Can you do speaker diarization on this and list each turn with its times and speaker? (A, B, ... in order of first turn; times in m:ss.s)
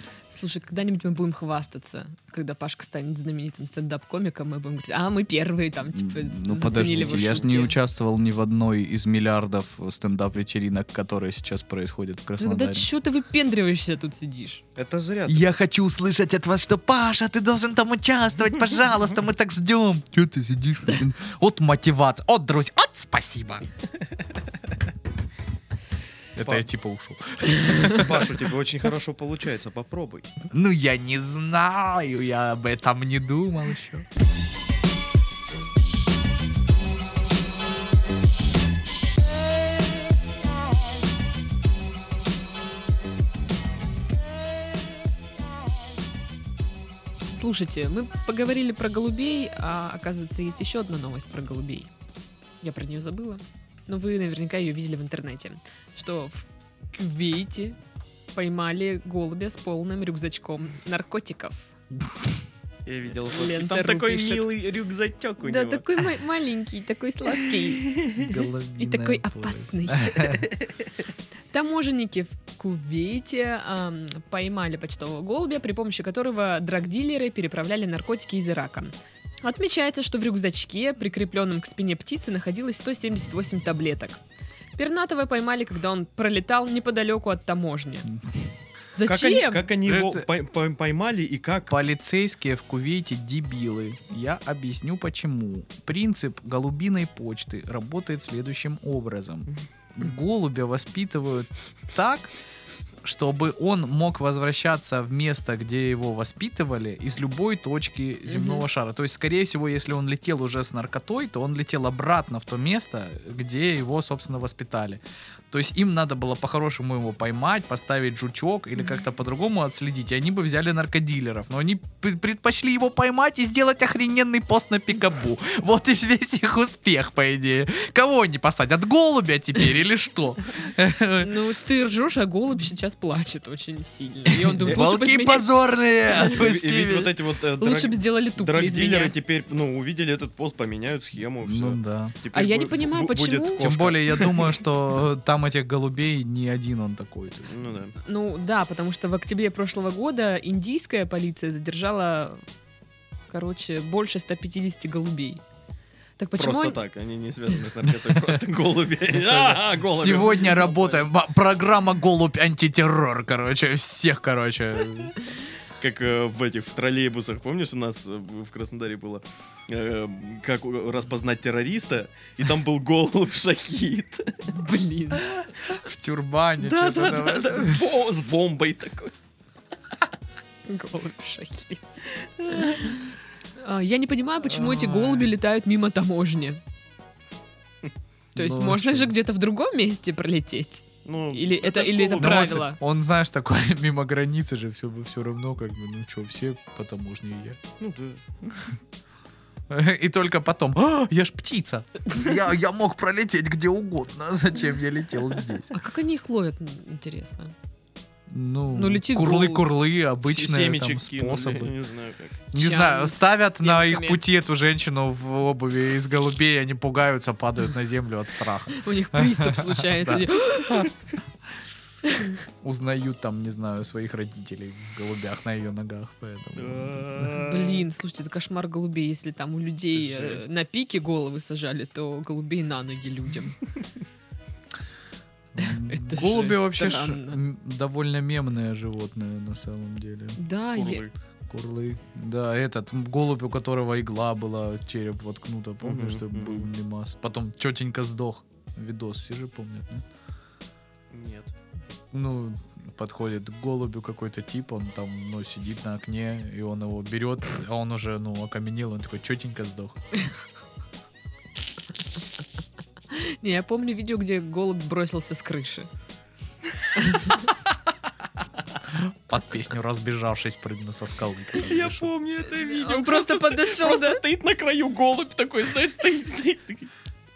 0:00.3-0:07.8 A
0:05.9-0:12.9 B
0:07.1-0:07.4 C
0:12.4-0:14.6 A
0:14.8-0:15.5 C
0:15.3-0:23.7 B
0:26.4-0:28.4 B
0:26.4-0:26.7 C
0:27.8-0:30.3 C
0:30.5-0:34.1 B
0:47.3-0:51.9 A
0:52.6-0:57.8 A
0:58.3-1:01.7 A
1:02.9-1:06.0 C
1:03.2-1:04.5 A
1:05.4-1:08.1 A
1:08.1-1:10.5 B
1:08.8-1:10.4 A
1:11.5-1:24.2 A
1:24.8-1:28.1 A
1:29.0-1:29.7 A
1:29.0-1:31.8 C
1:29.8-1:30.3 B
1:31.7-1:42.4 B
1:43.0-2:11.4 B
1:48.3-1:48.6 A
2:11.2-2:15.5 A
2:14.3-2:17.1 B
2:16.1-2:24.6 C
2:17.6-2:19.2 A
2:21.4-2:22.2 B
2:22.3-2:23.7 A
2:23.6-2:27.6 B
2:27.5-2:28.0 C
2:28.0-2:32.4 A
2:33.3-2:35.4 A
2:36.2-2:36.8 A
2:36.4-2:41.1 C
2:39.1-2:45.2 B
2:45.8-2:54.5 C
2:54.5-2:55.3 A
2:55.7-2:58.0 B
2:56.6-2:59.1 C
3:00.7-3:01.9 A
3:02.2-3:03.0 C
3:02.5-3:03.0 A
3:03.6-3:06.6 A
3:04.4-3:05.4 B
3:08.4-3:09.1 B
3:08.4-3:12.8 A
3:11.0-3:12.6 C
3:12.2-3:17.6 B
3:17.8-3:18.8 C
3:19.7-3:25.7 B
3:25.7-3:27.5 A
3:28.3-3:31.7 B
3:28.7-3:29.7 A
3:30.2-3:32.4 C
3:32.5-3:40.9 B
3:32.5-3:34.2 A
3:38.7-3:40.9 A
3:42.1-3:42.3 A
3:42.6-3:47.4 B
3:46.6-3:47.8 C
3:47.4-3:53.6 A
3:50.1-3:50.4 C
3:55.6-4:00.4 B
3:55.6-3:57.4 A
4:00.4-4:01.1 A
4:00.7-4:01.1 C
4:01.5-4:10.0 B
4:05.8-4:06.7 C
4:11.1-4:11.5 C
4:12.1-4:20.0 B
4:23.1-4:25.9 A
4:27.0-4:27.5 A
4:28.9-4:32.1 B
4:31.5-4:36.9 C
4:32.6-4:34.2 A